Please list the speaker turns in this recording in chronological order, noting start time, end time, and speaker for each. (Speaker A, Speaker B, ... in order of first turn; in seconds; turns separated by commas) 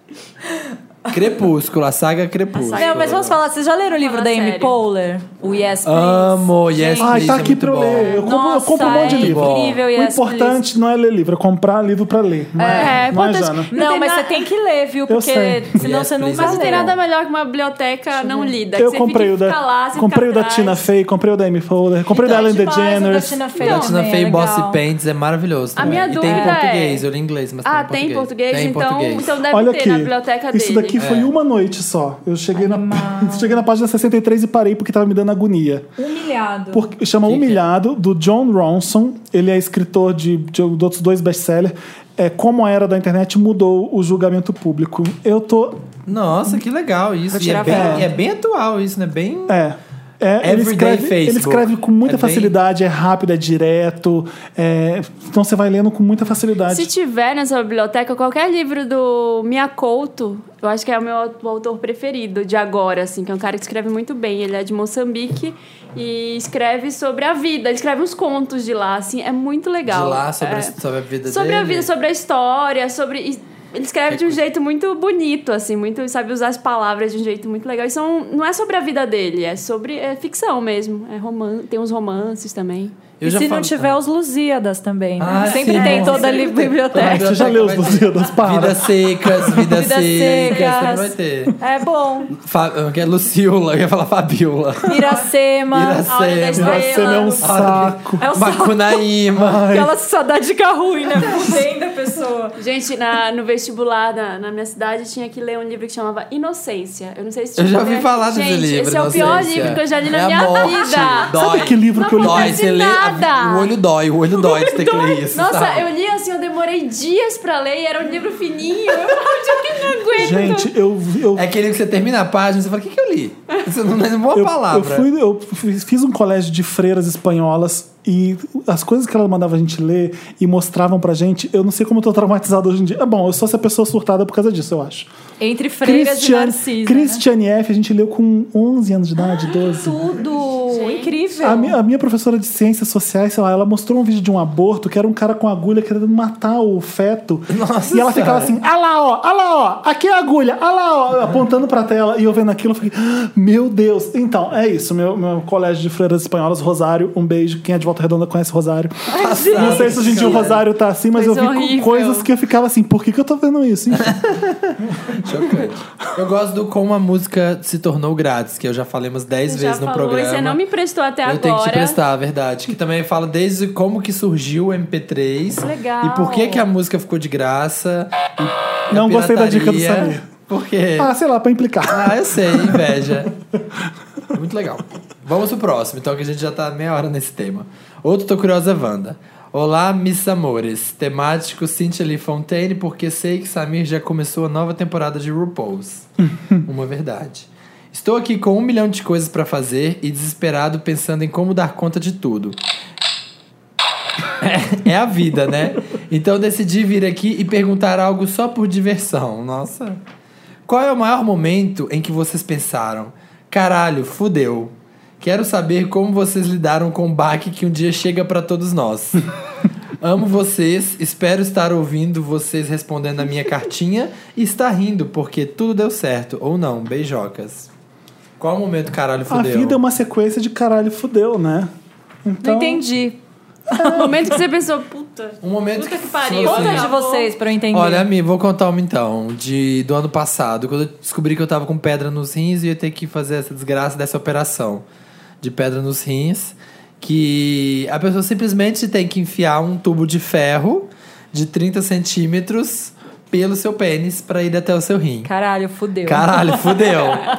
Speaker A: 1.1-3.4, Speaker B: 2.5-3.3, Speaker C: 2.7-7.4, Speaker B: 3.9-4.8, Speaker A: 5.8-8.2, Speaker D: 7.0-13.7, Speaker C: 8.1-10.6, Speaker A: 8.9-9.8, Speaker C: 12.6-13.2, Speaker B: 12.7-14.4, Speaker C: 13.7-16.9, Speaker D: 15.1-15.8, Speaker A: 15.8-16.9, Speaker B: 16.3-20.9, Speaker C: 18.2-18.5, Speaker D: 18.7-23.4, Speaker C: 22.1-24.8, Speaker B: 23.6-23.9, Speaker A: 23.6-29.3, Speaker B: 25.8-27.0, Speaker B: 27.6-31.0, Speaker D: 29.5-35.9, Speaker A: 31.0-31.3, Speaker C: 32.5-33.6, Speaker C: 36.0-36.8, Speaker D: 36.7-45.8, Speaker A: 37.2-37.6, Speaker A: 46.1-49.6, Speaker C: 47.3-48.1, Speaker D: 47.6-48.1, Speaker D: 49.5-56.9, Speaker A: 50.4-52.5, Speaker B: 56.7-70.7, Speaker A: 69.8-71.9, Speaker B: 71.3-83.0, Speaker A: 74.1-74.4, Speaker A: 83.2-83.9, Speaker C: 83.2-87.4, Speaker A: 85.2-91.5, Speaker B: 85.3-86.7, Speaker D: 86.9-89.7, Speaker C: 89.7-92.3, Speaker B: 90.2-90.9, Speaker A: 92.3-95.0, Speaker C: 94.8-96.1, Speaker A: 95.7-99.7, Speaker B: 96.1-97.5, Speaker D: 96.5-98.2, Speaker C: 98.2-99.0, Speaker D: 99.3-99.9, Speaker C: 99.6-102.5, Speaker B: 102.6-113.7, Speaker A: 107.5-115.9, Speaker C: 110.6-111.0, Speaker D: 111.3-112.6, Speaker B: 114.3-120.7, Speaker D: 120.1-121.5, Speaker A: 121.3-125.1, Speaker D: 124.3-135.1, Speaker C: 135.4-137.2, Speaker D: 135.8-140.0, Speaker C: 139.5-141.8, Speaker B: 140.7-141.1, Speaker D: 141.4-164.2, Speaker A: 147.5-148.5, Speaker C: 159.1-160.4, Speaker A: 159.2-160.6, Speaker B: 161.1-162.3, Speaker A: 163.9-170.6, Speaker B: 169.4-172.0, Speaker A: 171.2-181.1, Speaker C: 175.6-176.7, Speaker D: 178.9-180.3, Speaker D: 181.0-182.9, Speaker A: 181.8-183.3, Speaker A: 184.3-202.6, Speaker A: 204.4-210.0, Speaker A: 210.7-219.2, Speaker A: 220.0-227.7, Speaker A: 228.4-229.8, Speaker D: 229.3-231.7, Speaker D: 232.2-232.8, Speaker C: 232.4-233.2, Speaker D: 233.7-234.3, Speaker C: 233.8-234.1, Speaker B: 233.8-237.3, Speaker A: 235.4-236.9, Speaker C: 236.4-238.1, Speaker A: 237.7-244.8, Speaker A: 245.4-255.3, Speaker C: 255.2-256.7, Speaker A: 256.1-257.2